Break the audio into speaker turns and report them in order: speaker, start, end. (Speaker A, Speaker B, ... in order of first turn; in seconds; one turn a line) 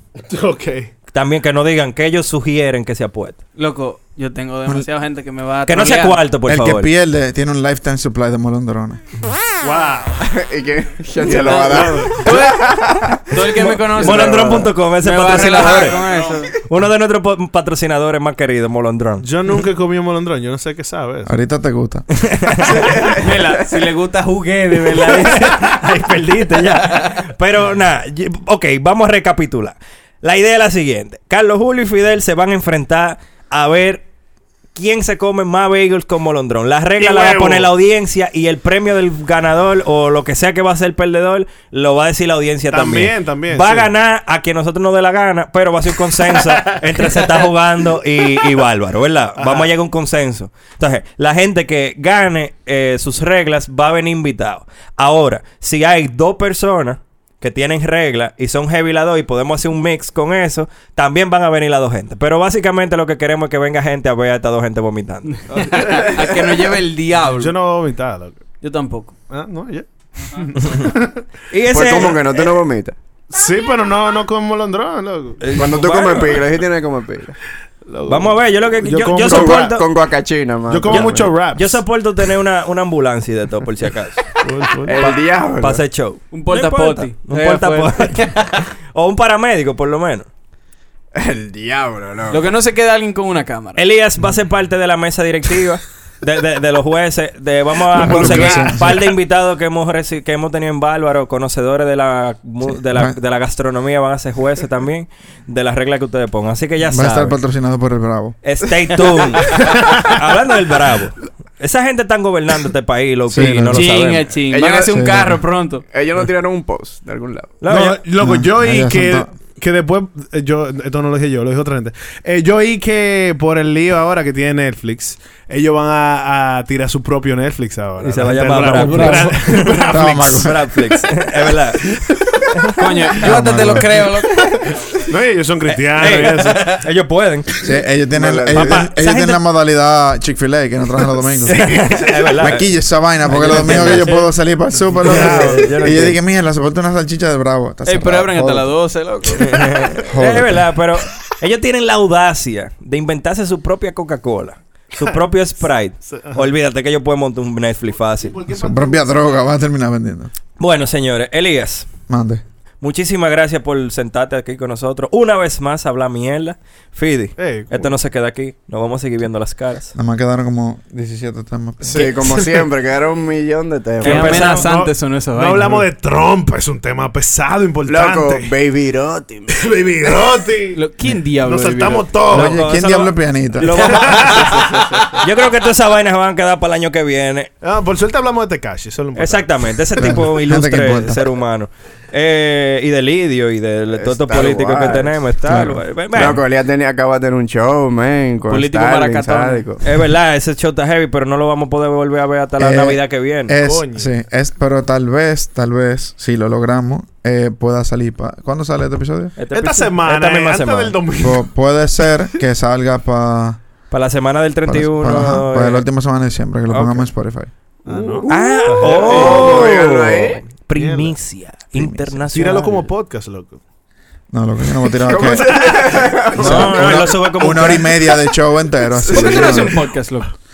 Speaker A: 0.3-0.9
Speaker B: 1.1-3.4
Speaker C: 3.6-6.2
Speaker B: 5.7-6.9
Speaker D: 6.5-9.0
Speaker A: 9.6-10.2
Speaker E: 10.2-13.3
Speaker A: 11.2-12.6
Speaker C: 11.5-16.5
Speaker A: 13.3-14.7
Speaker B: 14.0-16.0
Speaker A: 15.5-16.4
Speaker B: 16.6-19.3
Speaker A: 19.2-21.3
Speaker D: 21.3-22.1
Speaker B: 22.2-22.8
Speaker E: 22.7-23.8
Speaker C: 23.1-25.8
Speaker A: 24.9-26.7
Speaker B: 25.1-34.0
Speaker C: 26.8-27.1
Speaker B: 34.8-65.6
Speaker A: 37.0-37.7
Speaker A: 42.7-43.9
Speaker A: 46.3-47.3
Speaker A: 49.4-49.7
Speaker C: 65.3-67.6
Speaker A: 65.6-68.4
Speaker C: 68.6-69.2
Speaker A: 69.3-71.2
Speaker B: 70.6-71.0
Speaker B: 71.5-72.7
Speaker E: 71.7-73.0
Speaker A: 73.3-75.4
Speaker B: 75.4-76.5
Speaker E: 75.5-77.4
Speaker A: 77.9-79.8
Speaker B: 78.1-79.9
Speaker E: 79.2-81.4
Speaker A: 80.7-81.8
Speaker B: 80.9-84.3
Speaker A: 84.4-85.2
Speaker E: 84.9-85.8
Speaker B: 85.0-90.3
Speaker C: 86.3-88.5
Speaker E: 91.2-92.6
Speaker C: 92.3-93.8
Speaker B: 93.8-107.4
Speaker D: 97.9-99.0
Speaker A: 98.0-98.7
Speaker D: 102.7-103.2
Speaker D: 106.9-108.4
Speaker B: 108.4-114.3
Speaker A: 109.6-110.2
Speaker D: 113.3-114.0
Speaker C: 113.7-115.8
Speaker E: 114.5-115.4
Speaker D: 114.9-115.4
Speaker E: 115.9-117.6
Speaker B: 117.6-118.0
Speaker A: 117.7-130.4
Speaker D: 118.2-119.3
Speaker B: 128.0-132.8
Speaker D: 128.9-130.9
Speaker C: 132.8-134.7
Speaker D: 133.2-134.2
Speaker A: 135.1-136.7
Speaker B: 135.7-137.5
Speaker D: 137.6-148.8
Speaker E: 138.1-138.9
Speaker B: 138.6-139.4
Speaker B: 141.5-142.7
Speaker B: 143.3-144.2
Speaker B: 145.0-146.2
Speaker A: 145.0-145.8
Speaker C: 147.8-149.9
Speaker B: 149.3-158.4
Speaker D: 150.0-150.8
Speaker A: 156.1-156.5
Speaker A: 158.1-159.2
Speaker D: 158.5-160.3
Speaker B: 160.6-161.9
Speaker D: 162.1-162.4
Speaker B: 162.8-169.9
Speaker A: 167.4-167.9
Speaker D: 169.9-172.1
Speaker E: 171.8-174.6
Speaker B: 174.0-174.7
Speaker C: 174.0-175.9
Speaker A: 174.1-178.5
Speaker E: 177.9-179.6
Speaker A: 179.5-180.8
Speaker C: 180.7-182.2
Speaker A: 181.4-182.6
Speaker D: 182.3-184.2
Speaker B: 182.3-187.5
Speaker A: 183.8-185.1
Speaker E: 184.5-185.1
Speaker A: 187.6-190.0
Speaker B: 189.2-196.4
Speaker D: 190.0-191.3
Speaker E: 193.9-195.2
Speaker D: 195.5-195.8
Speaker E: 196.1-199.8
Speaker C: 198.5-199.7
Speaker B: 199.8-203.6
Speaker D: 202.6-209.4
Speaker A: 203.6-204.1
Speaker B: 209.4-211.0
Speaker A: 209.5-211.5
Speaker D: 211.2-213.6
Speaker B: 213.9-215.8
Speaker D: 214.7-217.5
Speaker B: 216.7-217.1
Speaker A: 217.9-219.8
Speaker E: 217.9-220.4
Speaker B: 218.3-222.9
Speaker A: 220.7-221.2
Speaker D: 221.8-222.2
Speaker A: 222.3-223.6
Speaker D: 224.3-229.9
Speaker E: 224.9-227.1
Speaker A: 225.5-226.0
Speaker B: 226.4-228.0
Speaker C: 229.0-230.3
Speaker A: 229.2-229.5